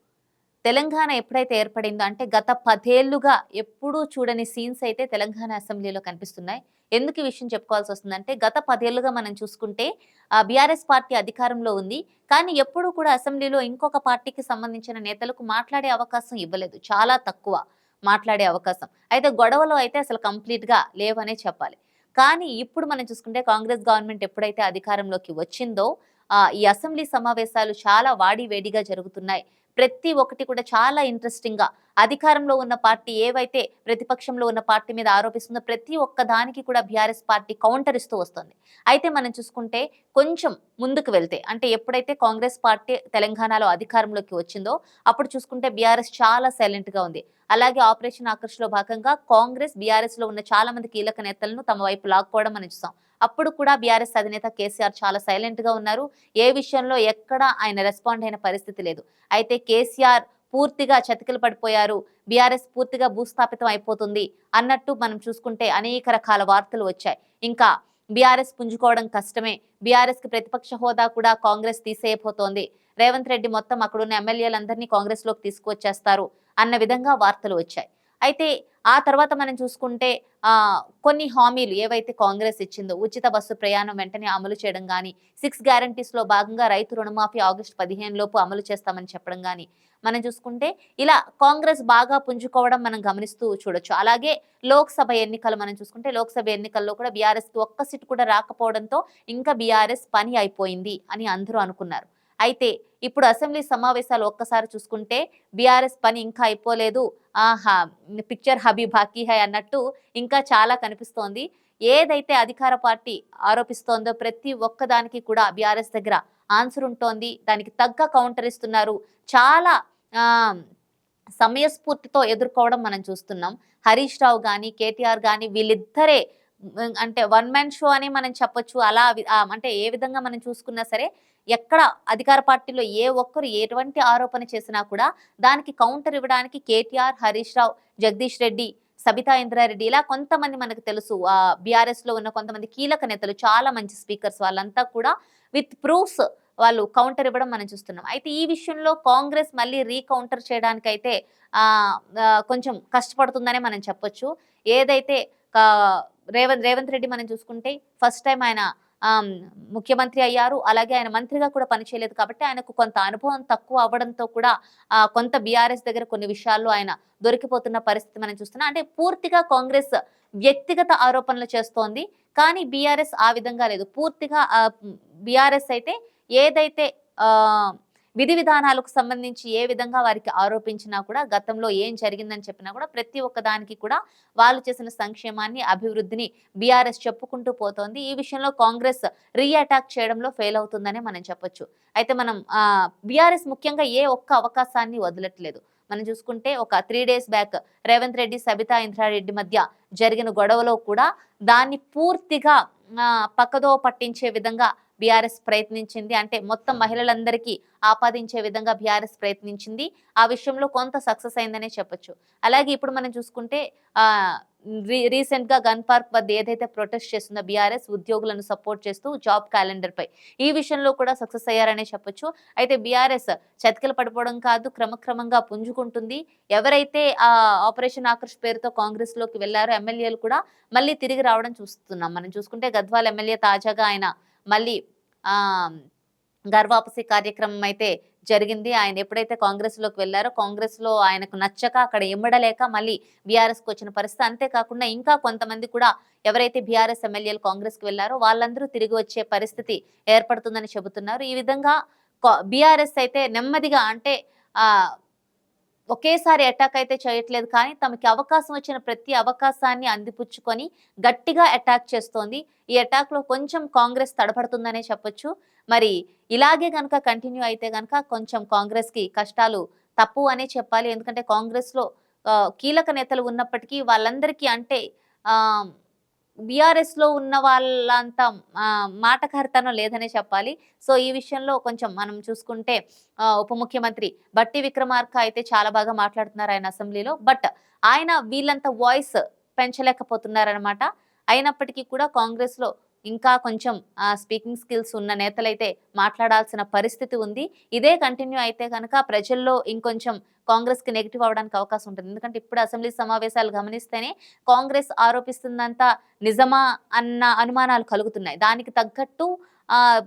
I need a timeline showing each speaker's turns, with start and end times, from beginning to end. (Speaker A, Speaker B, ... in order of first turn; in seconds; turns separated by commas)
Speaker A: 0.7-9.9, Speaker A: 10.5-25.9, Speaker A: 26.6-80.1, Speaker A: 81.0-107.8, Speaker A: 108.3-119.7, Speaker A: 121.4-126.2, Speaker A: 127.0-151.7, Speaker A: 152.5-164.5, Speaker A: 165.1-169.9, Speaker A: 170.5-192.4, Speaker A: 193.1-214.3, Speaker A: 214.9-234.7, Speaker A: 235.3-235.7, Speaker A: 236.5-251.7, Speaker A: 252.5-254.7, Speaker A: 255.9-271.8, Speaker A: 272.6-274.8, Speaker A: 276.5-282.8, Speaker A: 283.4-309.8